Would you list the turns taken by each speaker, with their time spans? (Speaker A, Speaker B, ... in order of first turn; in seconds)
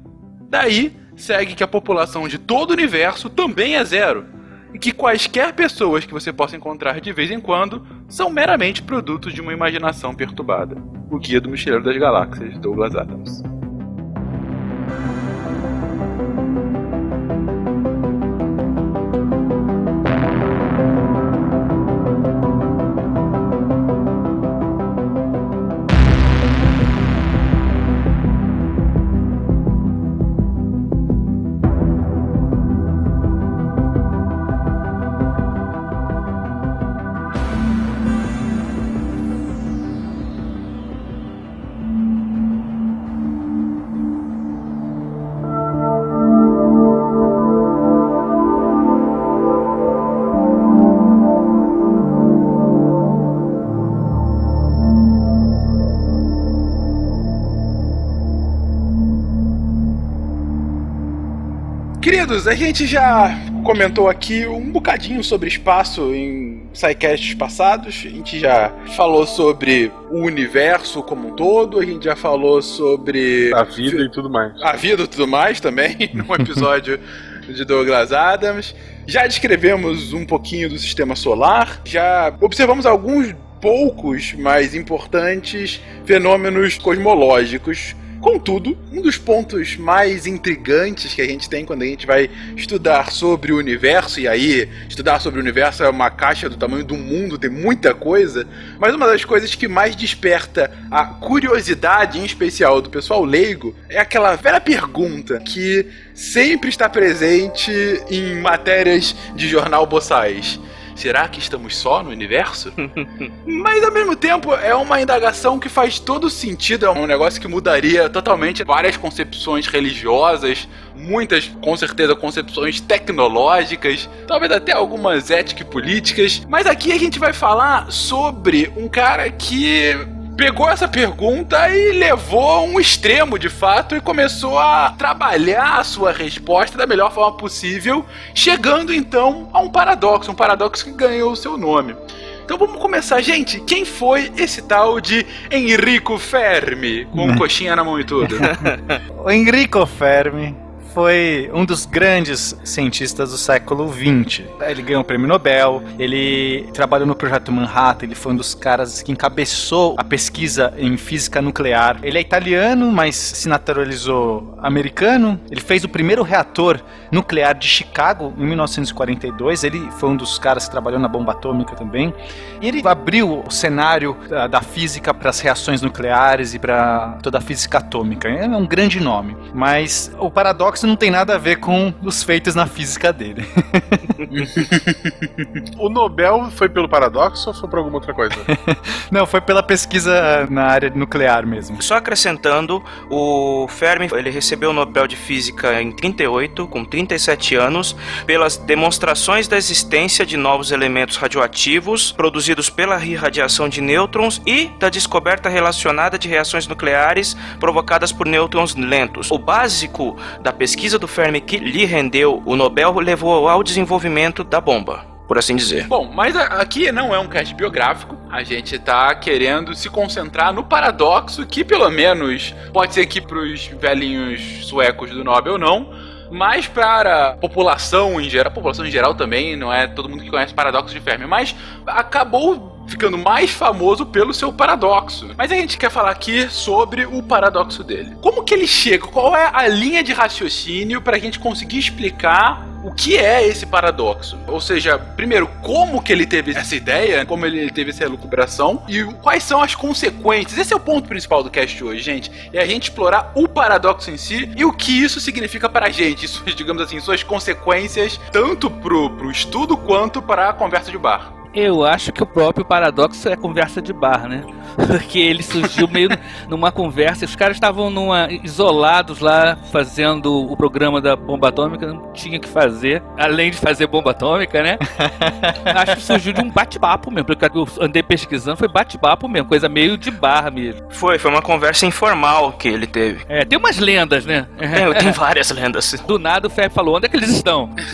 Speaker A: 0.5-13.4, 62.0-74.1, 74.6-112.7, 113.5-148.7, 184.3-185.1, 215.9-261.3
Speaker B: 73.5-74.6, 185.8-188.5
Speaker C: 112.8-113.3, 191.8-215.9, 280.9-283.2, 284.7-286.1
Speaker D: 147.1-147.4, 149.2-184.0, 188.5-191.8, 275.0-275.7
Speaker E: 261.5-274.9, 275.7-280.8, 283.3-285.1, 286.1-287.7